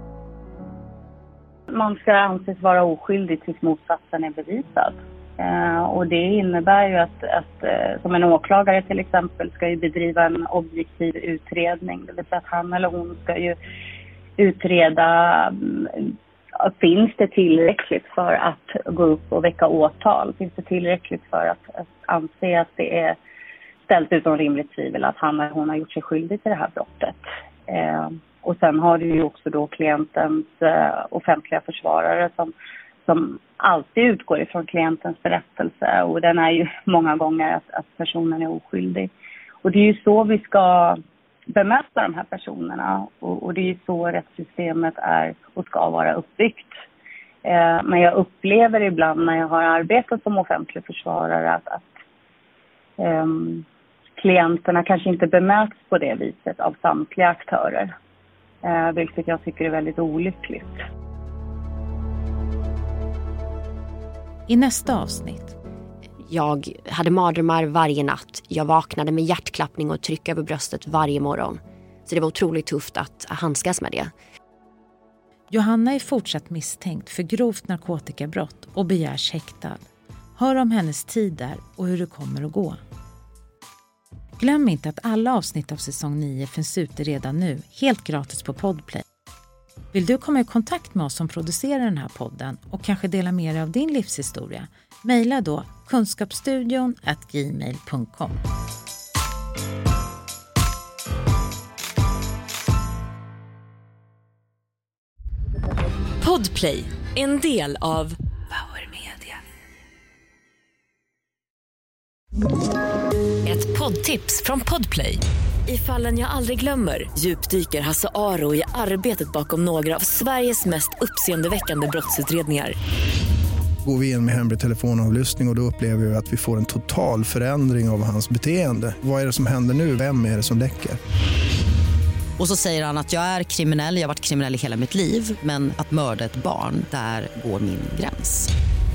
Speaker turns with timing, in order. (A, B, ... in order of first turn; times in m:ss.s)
0:01.7-0:13.6 A
0:14.4-0:23.2 A
0:23.9-0:32.5 A
0:33.0-0:39.1 A
0:39.6-0:46.7 A
0:47.4-0:51.9 A
0:53.0-0:53.6 A
0:54.2-0:57.9 A
0:58.6-1:00.8 A
1:04.5-1:05.5 B
1:06.3-1:14.1 C
1:15.5-1:19.8 B
1:20.4-1:22.8 B
1:24.4-1:29.0 B
1:29.9-1:38.4 B
1:46.2-1:49.4 D
1:53.4-2:02.7 D
2:03.8-2:11.0 E
2:12.4-2:18.5 F